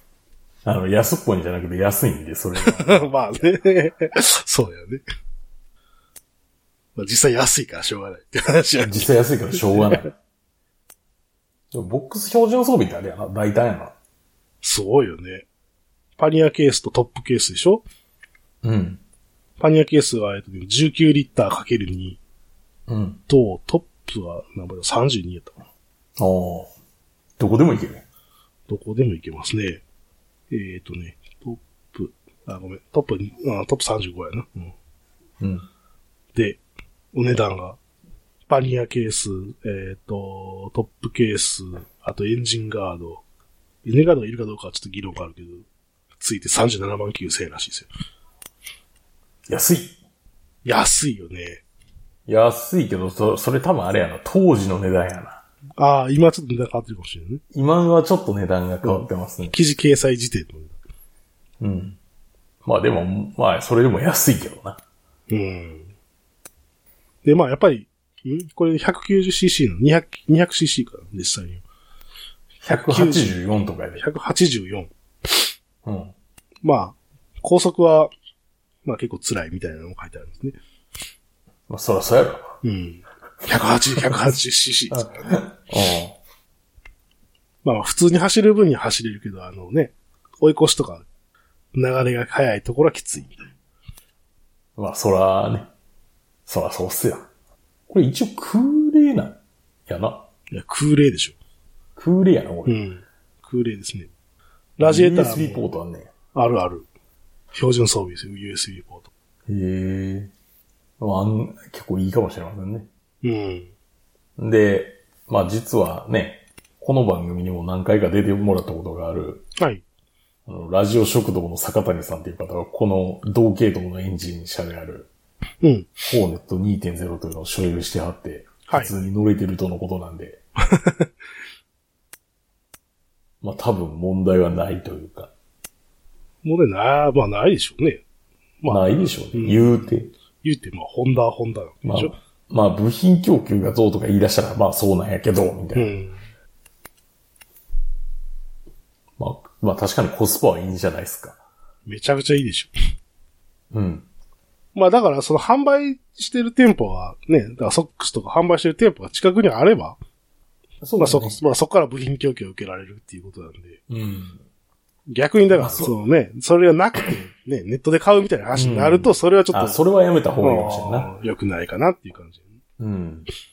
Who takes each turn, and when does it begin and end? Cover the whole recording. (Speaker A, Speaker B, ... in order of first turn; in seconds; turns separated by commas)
Speaker A: 0.7-3.1, Speaker B: 2.6-5.0, Speaker B: 7.0-10.0, Speaker A: 8.8-10.1, Speaker A: 11.7-13.9, Speaker B: 14.6-15.5, Speaker B: 16.2-17.8, Speaker A: 18.6-19.0, Speaker B: 19.6-22.2, Speaker A: 22.9-23.2, Speaker B: 23.3-25.7, Speaker A: 26.2-26.7, Speaker A: 27.4-28.0, Speaker B: 28.7-29.8, Speaker B: 30.5-34.7, Speaker A: 35.4-35.7, Speaker B: 36.3-36.6, Speaker B: 37.1-37.8, Speaker B: 38.5-43.2, Speaker B: 43.8-45.7, Speaker B: 46.2-47.9, Speaker A: 49.5-50.0, Speaker B: 50.6-51.6, Speaker A: 52.3-55.4, Speaker B: 55.8-57.4, Speaker A: 57.5-59.5, Speaker B: 58.8-60.8, Speaker A: 61.6-62.0, Speaker A: 62.6-64.8, Speaker B: 65.3-65.9, Speaker B: 67.2-71.6, Speaker A: 72.6-74.0, Speaker B: 72.7-73.4, Speaker B: 74.0-74.9, Speaker A: 75.8-76.1, Speaker B: 76.6-78.1, Speaker B: 78.8-80.6, Speaker A: 81.7-82.6, Speaker B: 82.6-85.3, Speaker A: 84.0-84.3, Speaker A: 84.9-86.2, Speaker B: 87.6-91.0, Speaker B: 91.7-93.5, Speaker A: 94.8-95.7, Speaker A: 96.5-97.3, Speaker A: 97.9-100.3, Speaker B: 100.5-101.4, Speaker A: 102.0-102.8, Speaker B: 102.7-104.1, Speaker B: 104.8-105.6, Speaker A: 104.8-106.1, Speaker B: 106.3-106.9, Speaker B: 107.5-109.1, Speaker A: 109.5-110.3, Speaker A: 111.0-112.9, Speaker B: 113.2-113.7, Speaker A: 114.4-119.5, Speaker B: 119.6-119.8, Speaker A: 120.5-125.1, Speaker B: 125.6-126.0, Speaker A: 126.1-130.4, Speaker B: 128.7-128.9, Speaker B: 130.7-131.1, Speaker A: 133.4-135.3, Speaker B: 136.4-138.0, Speaker B: 138.6-139.9, Speaker A: 138.7-140.1, Speaker B: 140.4-142.1, Speaker A: 141.8-145.9, Speaker B: 145.7-146.2, Speaker A: 149.2-151.4, Speaker B: 151.9-152.7, Speaker A: 153.7-154.1, Speaker B: 154.8-160.0, Speaker A: 160.8-161.4, Speaker B: 161.0-163.8, Speaker A: 163.9-164.4, Speaker B: 165.1-169.8, Speaker A: 165.5-165.9, Speaker A: 168.6-171.1, Speaker B: 170.4-172.5, Speaker A: 172.8-173.3